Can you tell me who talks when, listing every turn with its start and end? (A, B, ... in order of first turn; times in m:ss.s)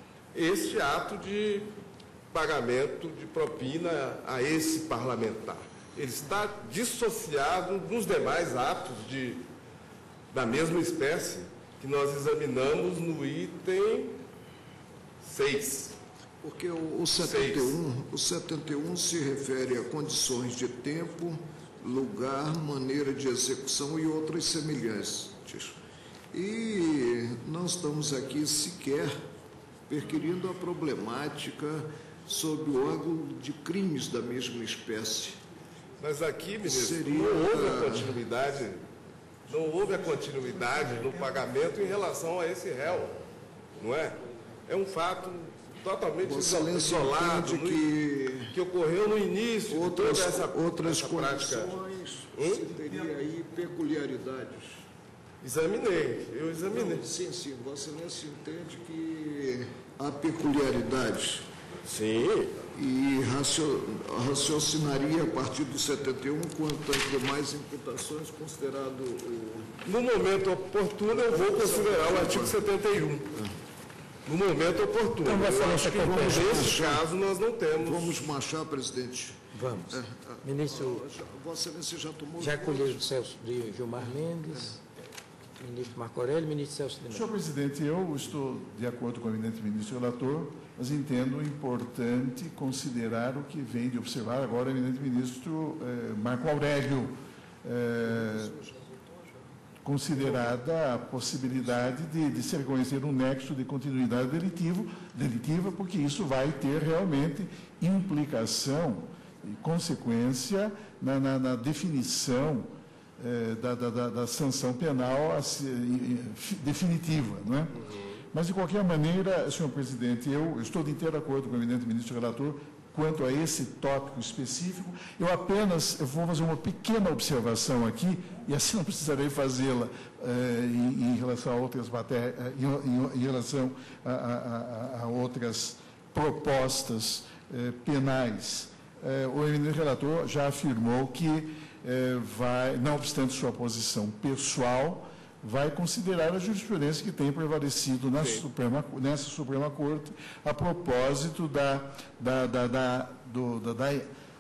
0:00.3-0:01.7 A
0:02.3-0:09.5 A
0:10.3-0:14.2 A
0:15.2-0:16.0 A
0:16.4-0:25.8 B
0:17.2-0:17.8 A
0:26.3-0:29.2 B
0:29.9-0:35.4 B
0:36.0-0:38.9 A
0:36.6-0:38.1 B
0:39.5-0:43.2 A
0:43.8-0:47.9 A
0:46.2-0:48.5 B
0:48.5-0:51.8 A
0:49.7-0:54.9 B
0:52.3-0:52.7 A
0:55.4-0:57.1 A
0:56.7-1:01.5 B
1:01.8-1:02.6 A
1:02.8-1:09.8 B
1:09.8-1:13.4 A
1:11.1-1:12.6 B
1:14.3-1:18.3 A
1:15.3-1:16.8 C
1:15.6-1:17.1 B
1:17.8-1:23.1 B
1:19.5-1:21.0 C
1:22.4-1:24.8 C
1:25.6-1:27.3 C
1:27.1-1:38.6 D
1:38.1-1:39.3 B
1:39.8-1:57.8 D
1:57.8-1:58.2 A
1:58.3-2:34.1 D
2:28.2-2:28.5 A